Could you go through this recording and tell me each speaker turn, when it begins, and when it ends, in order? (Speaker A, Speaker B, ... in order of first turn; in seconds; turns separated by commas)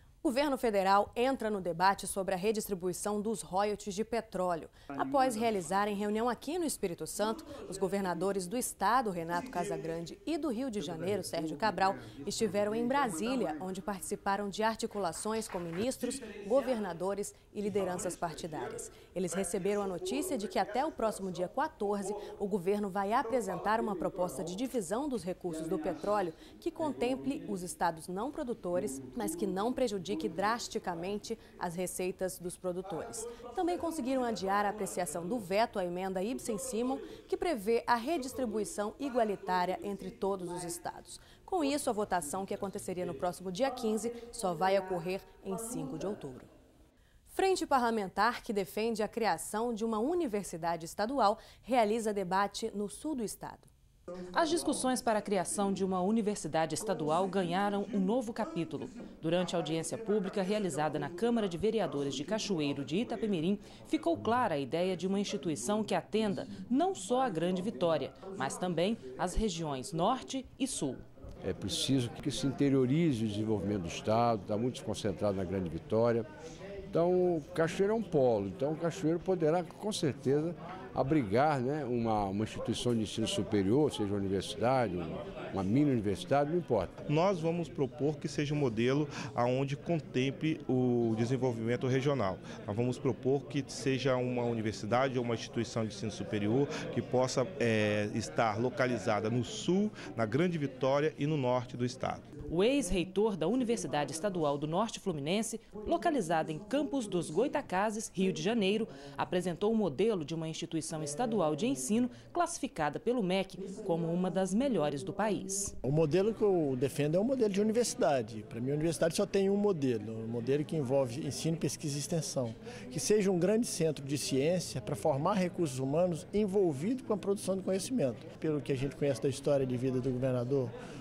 Speaker A: 0.2-46.5, Speaker A: 47.3-53.7, Speaker B: 54.3-71.0, Speaker C: 71.4-76.3, Speaker C: 76.9-86.9, Speaker D: 87.0-102.2, Speaker B: 102.5-115.8, Speaker E: 115.8-130.7